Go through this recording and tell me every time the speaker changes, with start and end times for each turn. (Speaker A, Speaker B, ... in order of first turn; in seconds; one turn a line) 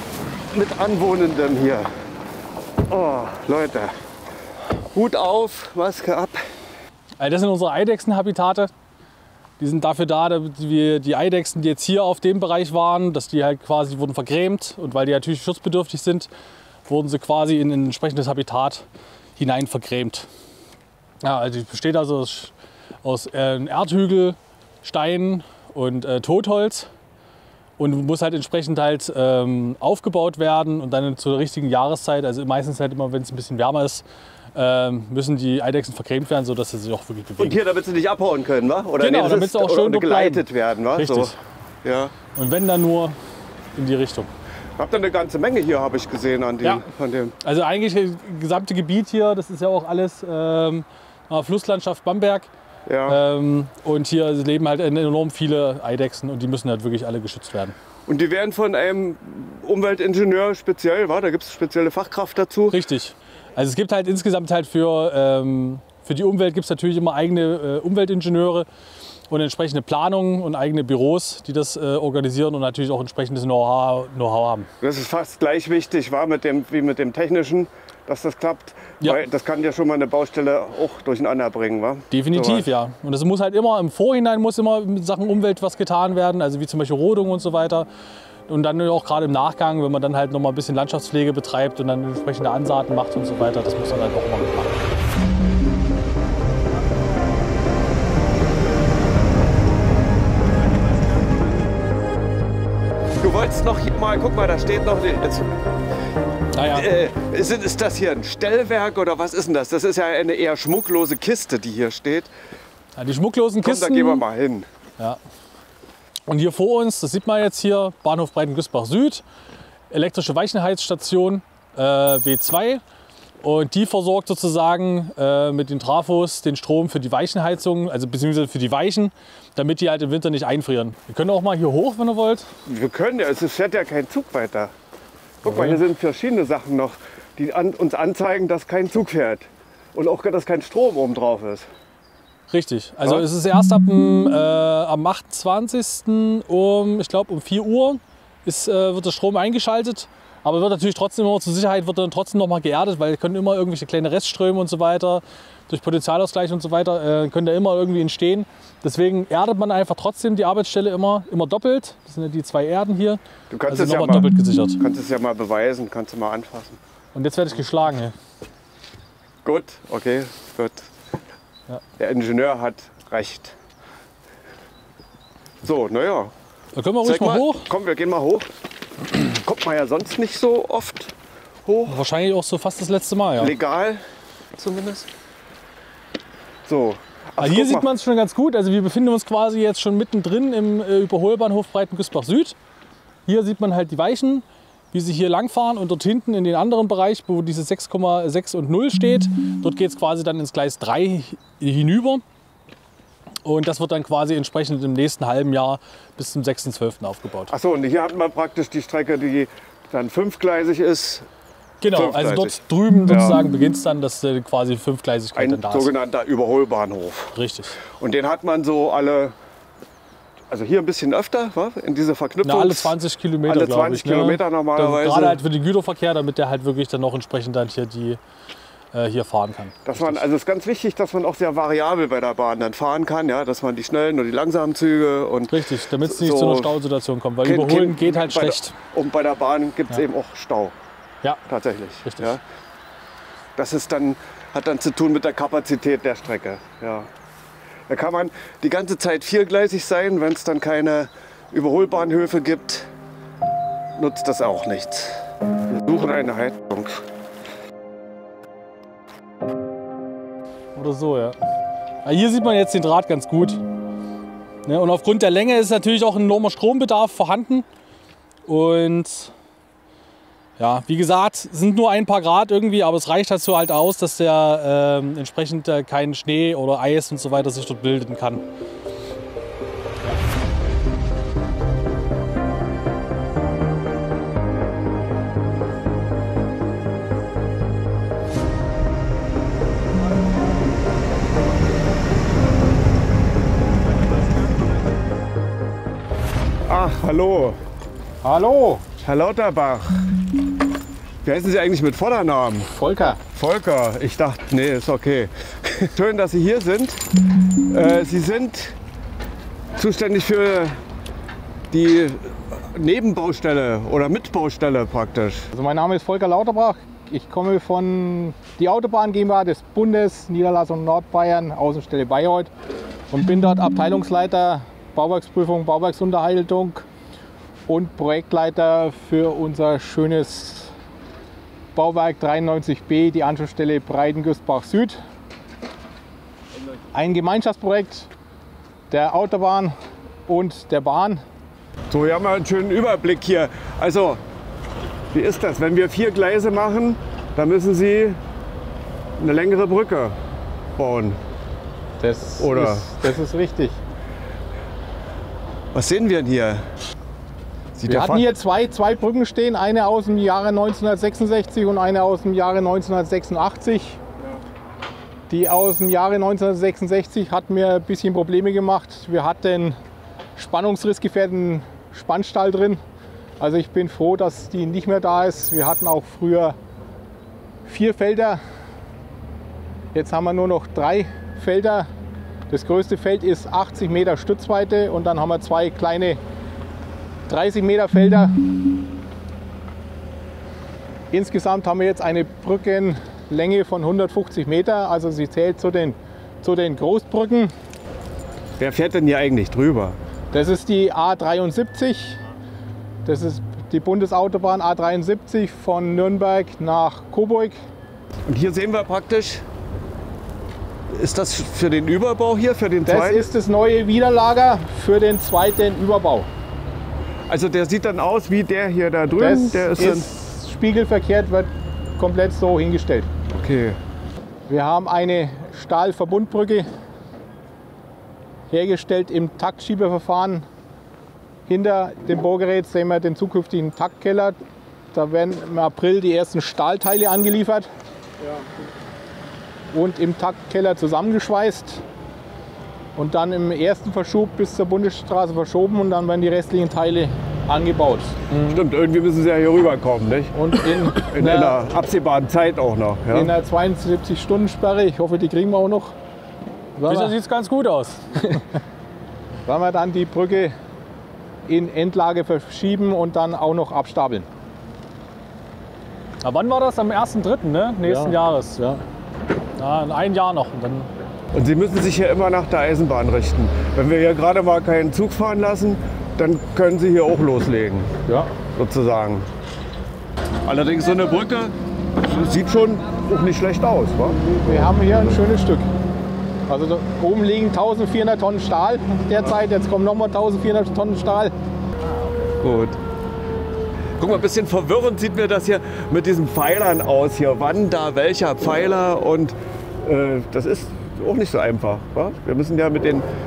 Speaker A: 0.5-1.9
Speaker A: 2.9-3.9
Speaker A: 4.9-6.4
Speaker B: 7.2-8.7
Speaker B: 9.6-16.3
Speaker B: 16.9-18.9
Speaker B: 19.4-20.3
Speaker B: 21.2-22.5
Speaker B: 23.0-26.9
Speaker B: 27.8-34.0
Speaker B: 34.5-37.6
Speaker A: 37.4-42.1
Speaker B: 39.0-41.4
Speaker B: 42.3-43.1
Speaker B: 43.8-44.3
Speaker A: 44.8-47.3
Speaker B: 47.4-52.5
Speaker A: 52.9-53.2
Speaker B: 53.1-57.7
Speaker A: 58.1-62.8
Speaker B: 62.7-68.7
Speaker B: 69.3-74.7
Speaker A: 74.8-82.7
Speaker B: 82.1-87.9
Speaker B: 88.5-94.8
Speaker A: 103.2-105.6
Speaker B: 106.5-106.9
Speaker A: 106.6-112.3
Speaker B: 113.0-114.2
Speaker A: 113.6-114.7
Speaker B: 116.3-119.2
Speaker B: 119.9-122.8
Speaker B: 123.4-132.5
Speaker A: 132.7-134.7
Speaker A: 135.4-141.7
Speaker B: 135.4-135.8
Speaker B: 142.5-164.8
Speaker A: 163.5-166.8
Speaker B: 167.1-168.1
Speaker A: 169.4-170.9
Speaker A: 172.0-173.6
Speaker A: 175.6-176.3
Speaker B: 176.7-177.7
Speaker A: 177.0-178.5
Speaker A: 179.2-181.1
Speaker A: 181.6-182.0
Speaker B: 181.9-183.5
Speaker A: 183.4-184.0
Speaker A: 184.5-185.1
Speaker A: 186.7-187.9
Speaker B: 187.4-192.6
Speaker B: 193.3-202.2
Speaker B: 203.4-207.5
Speaker A: 207.5-211.3
Speaker B: 211.8-215.9
Speaker A: 211.9-213.4
Speaker A: 215.3-219.3
Speaker B: 217.3-217.8
Speaker A: 220.5-225.4
Speaker B: 222.4-228.2
Speaker B: 228.9-230.2
Speaker A: 229.8-236.8
Speaker B: 235.5-238.7
Speaker A: 237.4-240.7
Speaker A: 241.5-242.4
Speaker B: 242.0-242.3
Speaker A: 243.6-247.1
Speaker A: 247.9-252.9
Speaker A: 253.9-257.0
Speaker B: 260.7-261.4
Speaker B: 262.0-263.6
Speaker B: 264.6-267.6
Speaker B: 268.4-269.3
Speaker B: 270.6-278.4
Speaker A: 296.7-297.6
Speaker C: 298.2-298.8
Speaker A: 299.0-300.2
Speaker A: 301.2-302.7
Speaker C: 302.7-303.2
Speaker A: 303.3-308.8
Speaker A: 309.8-310.8
Speaker A: 311.7-315.5
Speaker C: 315.5-322.5
Speaker C: 323.1-326.8
Speaker C: 327.7-330.7
Speaker C: 331.7-335.0
Speaker C: 336.9-338.1
Speaker C: 338.9-339.8
Speaker C: 340.3-341.2
Speaker A: 341.9-344.2
Speaker A: 345.1-348.2
Speaker A: 349.2-350.2
Speaker A: 350.8-351.2
Speaker C: 352.0-353.8
Speaker A: 352.4-353.1
Speaker A: 355.7-356.6
Speaker A: 357.8-358.3
Speaker C: 357.9-364.0
Speaker C: 365.3-369.8
Speaker C: 370.4-372.8
Speaker C: 373.4-376.6
Speaker C: 377.6-378.4
Speaker C: 379.9-381.9
Speaker C: 382.5-386.2
Speaker C: 387.3-388.4
Speaker C: 391.1-397.5
Speaker A: 398.6-400.0
Speaker C: 400.3-402.2
Speaker C: 403.0-407.6
Speaker A: 408.3-409.4
Speaker A: 410.9-413.3
Speaker C: 412.8-416.3
Speaker A: 417.3-420.1
Speaker C: 419.2-423.1
Speaker A: 423.3-423.8
Speaker C: 424.5-426.6
Speaker C: 428.5-430.4
Speaker C: 431.5-434.4
Speaker C: 434.9-437.7
Speaker C: 439.7-441.8
Speaker C: 442.9-448.4
Speaker A: 448.4-453.3
Speaker C: 450.3-451.6
Speaker C: 453.1-455.9
Speaker C: 456.8-457.1
Speaker B: 456.9-458.4
Speaker C: 459.4-460.5
Speaker C: 461.5-464.3
Speaker B: 466.2-468.6
Speaker C: 467.8-468.8
Speaker B: 469.6-470.9
Speaker A: 471.3-477.9
Speaker C: 478.1-478.3
Speaker A: 478.5-479.3
Speaker A: 480.4-485.2
Speaker C: 484.2-485.6
Speaker C: 486.5-491.3
Speaker A: 492.4-492.8
Speaker A: 494.0-503.1